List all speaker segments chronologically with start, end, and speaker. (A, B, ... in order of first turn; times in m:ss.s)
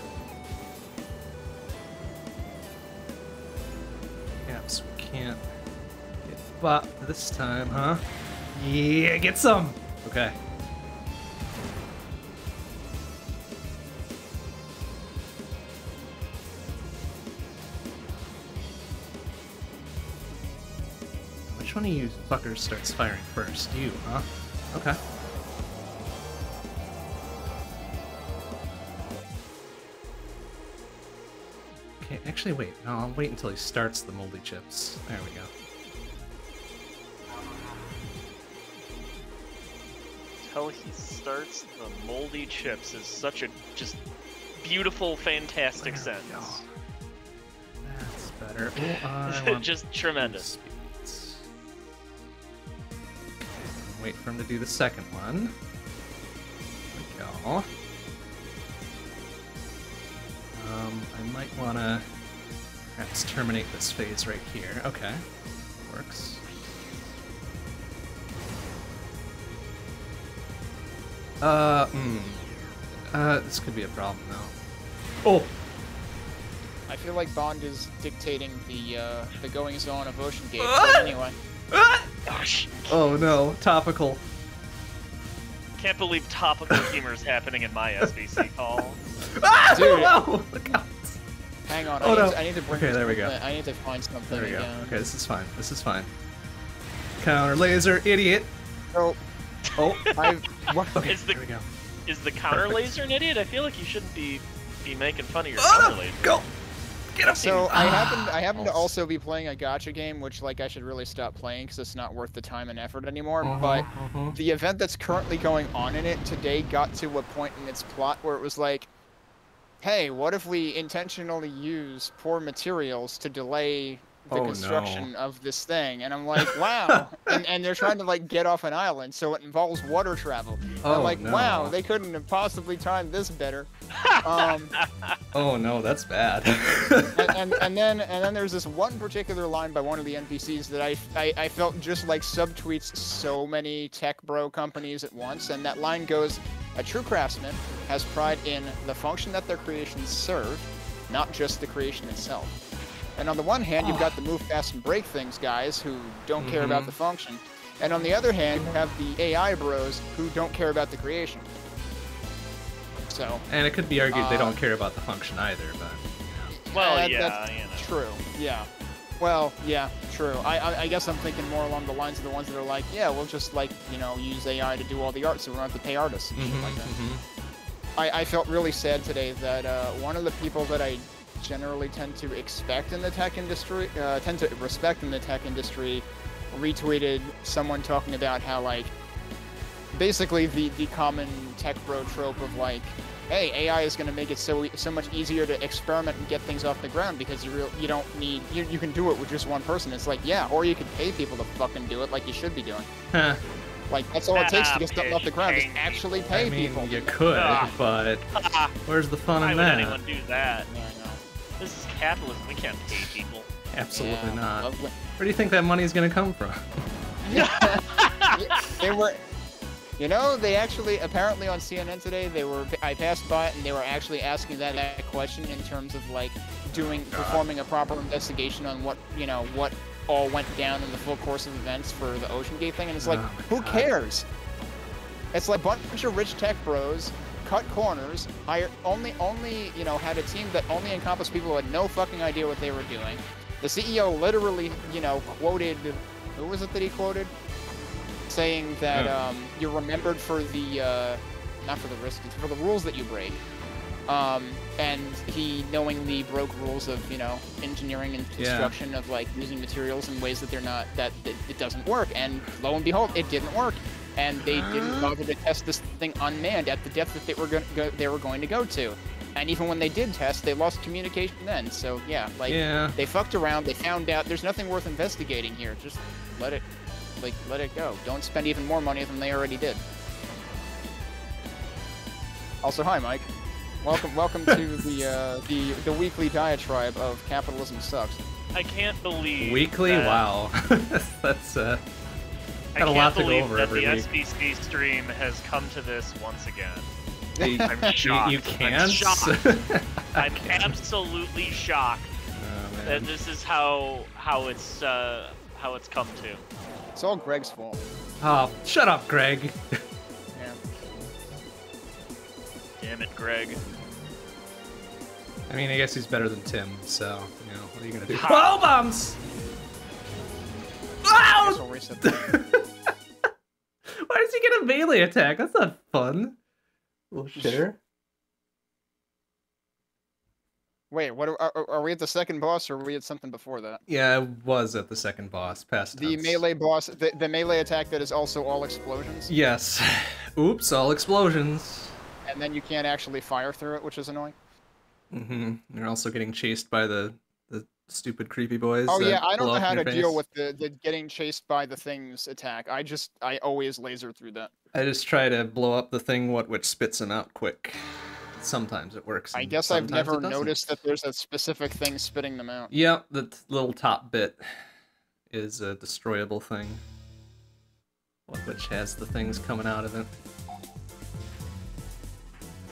0:04.4-0:05.4 A
0:06.2-0:10.4 A
0:21.5-0:25.0 A
0:32.0-0:35.5 A
0:40.4-0:44.0 B
0:44.6-0:46.6 B
0:45.8-0:46.7 A
0:47.8-0:51.4 A
0:49.2-0:50.4 B
0:53.4-0:55.5 A
0:56.9-0:57.7 A
1:00.5-1:02.0 A
1:02.9-1:05.2 A
1:05.8-1:06.4 A
1:11.4-1:12.4 A
1:13.1-1:14.5 A
1:15.2-1:15.5 A
1:16.9-1:21.4 C
1:20.6-1:21.1 A
1:21.7-1:22.1 A
1:22.2-1:23.0 B
1:22.9-1:24.2 A
1:25.8-1:29.0 B
1:29.2-1:31.2 A
1:29.7-1:30.2 C
1:31.7-1:34.9 C
1:32.0-1:33.3 A
1:34.3-1:36.1 A
1:37.2-1:38.5 A
1:38.9-1:39.2 C
1:39.8-1:40.1 A
1:39.8-1:40.1 B
1:40.1-1:41.0 C
1:40.9-1:41.6 A
1:41.0-1:41.4 B
1:42.1-1:46.4 B
1:42.5-1:43.0 A
1:45.6-1:46.4 A
1:47.1-1:48.9 A
1:47.3-1:58.9 C
1:53.4-1:54.4 A
1:59.8-2:13.7 C
2:04.3-2:05.1 A
2:06.4-2:07.0 A
2:10.8-2:11.7 A
2:13.9-2:15.2 B
2:14.2-2:14.7 C
2:15.3-2:17.6 A
2:17.1-2:32.6 C
2:33.2-2:41.5 C
2:33.8-2:34.1 A
2:36.4-2:37.0 A
2:43.1-2:43.4 C
2:43.5-2:46.5 A
2:44.1-2:44.6 C
2:46.5-2:48.7 C
2:46.7-2:47.9 B
2:49.2-2:56.9 C
2:56.3-2:57.2 A
2:58.0-3:08.9 C
3:09.9-3:22.9 C
3:23.1-3:23.4 A
3:23.9-3:27.7 C
3:24.3-3:26.4 B
3:26.3-3:28.2 A
3:27.3-3:27.7 B
3:28.3-3:28.7 B
3:28.8-3:30.0 A
3:29.4-3:30.7 B
3:30.7-3:31.2 C
3:31.6-3:33.5 B
3:32.9-3:33.2 A
3:33.7-3:36.8 A
3:33.9-3:34.9 C
3:37.2-3:39.2 C
3:37.3-3:38.7 B
3:40.0-3:54.2 C
3:46.7-3:47.4 A
3:53.0-3:53.9 A
3:55.3-4:07.3 C
4:08.3-4:13.4 C
4:08.9-4:09.3 A
4:14.1-4:36.6 C
4:18.4-4:18.7 A
4:24.5-4:25.1 A
4:32.5-4:33.0 A
4:37.2-4:39.8 C
4:42.6-4:43.3 C
4:43.8-4:48.2 C
4:48.5-4:50.2 B
4:49.4-4:51.8 A
4:52.7-4:56.9 B
4:52.8-4:54.1 A
4:57.4-4:57.7 C
4:57.4-5:00.7 A
4:57.6-4:59.3 B
5:00.1-5:02.1 B
5:02.3-5:03.1 A
5:02.8-5:06.4 B
5:06.9-5:07.8 C
5:08.2-5:09.8 A
5:10.3-5:10.6 C
5:12.8-5:13.6 B
5:15.5-5:19.2 A
5:18.1-5:18.5 B
5:21.0-5:22.9 A
5:21.1-5:22.4 C
5:23.9-5:26.4 A
5:27.1-5:27.8 A
5:27.4-5:27.6 C
5:30.9-5:33.8 C
5:33.9-5:36.4 A
5:35.9-5:39.3 C
5:39.3-5:42.0 A
5:42.2-5:44.3 C
5:45.1-5:50.2 A
5:48.9-5:54.5 C
5:54.7-6:00.6 A
5:59.3-6:02.7 C
6:02.7-6:04.7 A
6:05.3-6:06.8 A
6:08.3-6:10.1 A